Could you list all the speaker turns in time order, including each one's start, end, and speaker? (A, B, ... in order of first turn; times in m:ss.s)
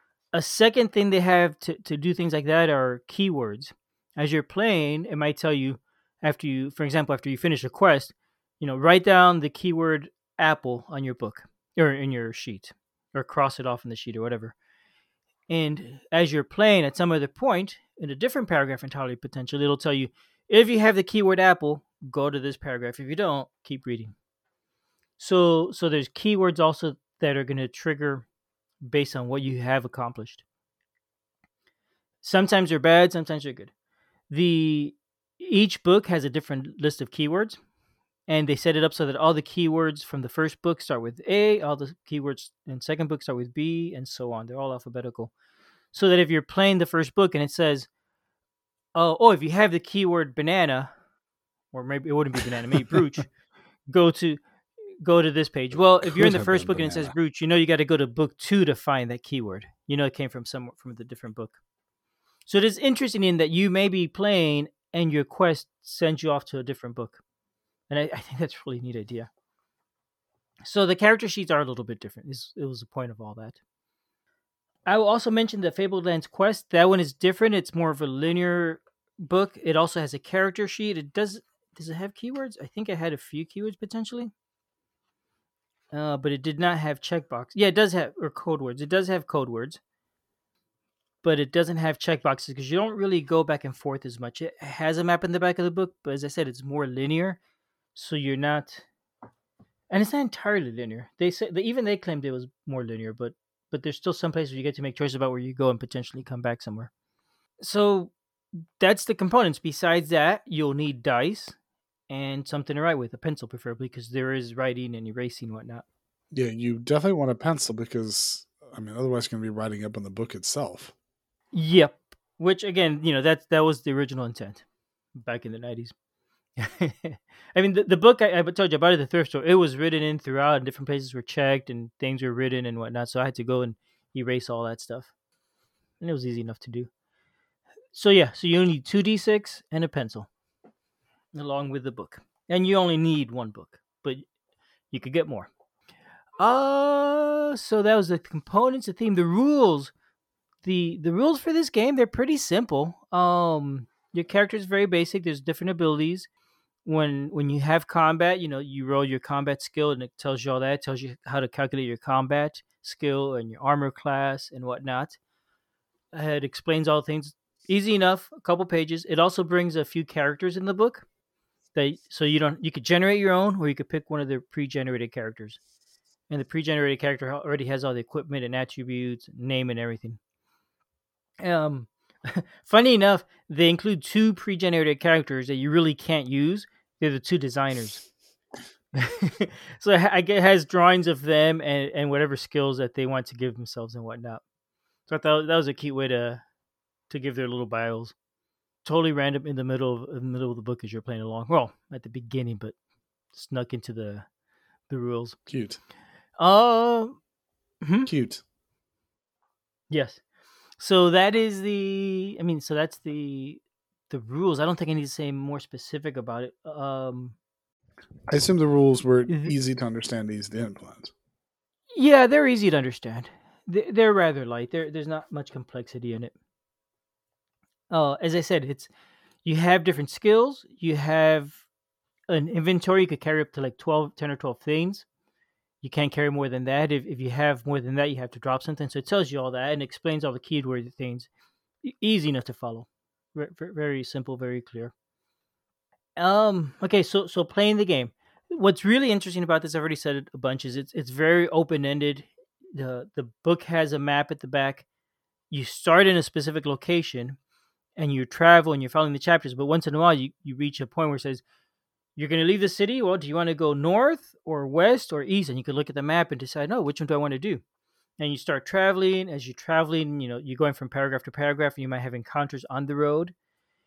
0:00.3-0:14.6 A
0:15.5-0:24.1 A
0:25.2-0:28.3 A
0:28.8-0:30.4 A
0:32.2-0:33.7 A
0:34.3-0:37.6 A
0:38.3-0:45.3 A
0:45.9-0:47.9 A
0:49.0-0:50.9 A
0:51.7-0:53.3 A
0:53.9-0:54.4 A
0:55.0-1:01.6 A
0:55.8-0:57.2 B
1:02.5-1:07.2 A
1:07.9-1:09.3 A
1:10.6-1:13.6 A
1:14.9-1:24.3 A
1:25.9-1:29.8 A
1:31.2-1:37.4 A
1:38.0-1:38.9 A
1:39.9-1:46.9 A
1:47.6-1:48.1 A
1:48.8-1:51.6 A
1:52.1-1:55.8 A
1:56.3-2:00.9 B
2:01.5-2:04.6 A
2:05.2-2:05.9 A
2:06.6-2:15.1 A
2:16.0-2:16.9 A
2:17.9-2:20.3 A
2:21.3-2:24.2 A
2:24.9-2:25.5 A
2:26.4-2:29.9 A
2:30.6-2:36.3 A
2:36.8-2:45.2 A
2:46.1-2:51.0 A
2:51.7-2:55.6 A
2:56.3-3:00.2 A
3:01.4-3:08.0 A
3:08.9-3:14.4 A
3:15.1-3:16.4 A
3:17.1-3:18.1 A
3:18.8-3:22.7 A
3:23.3-3:24.3 A
3:24.9-3:25.4 A
3:25.5-3:25.8 B
3:26.4-3:27.2 A
3:27.8-3:28.1 A
3:28.1-3:28.4 B
3:29.9-3:30.2 A
3:30.8-3:37.4 A
3:38.3-3:41.1 B
3:39.3-3:39.5 A
3:42.0-3:46.3 A
3:47.9-3:48.9 A
3:49.4-3:51.6 A
3:52.3-3:55.1 A
3:55.8-4:01.3 A
4:01.8-4:04.9 A
4:06.2-4:14.8 A
4:15.5-4:17.4 A
4:18.0-4:21.4 A
4:22.2-4:27.6 A
4:28.2-4:33.3 A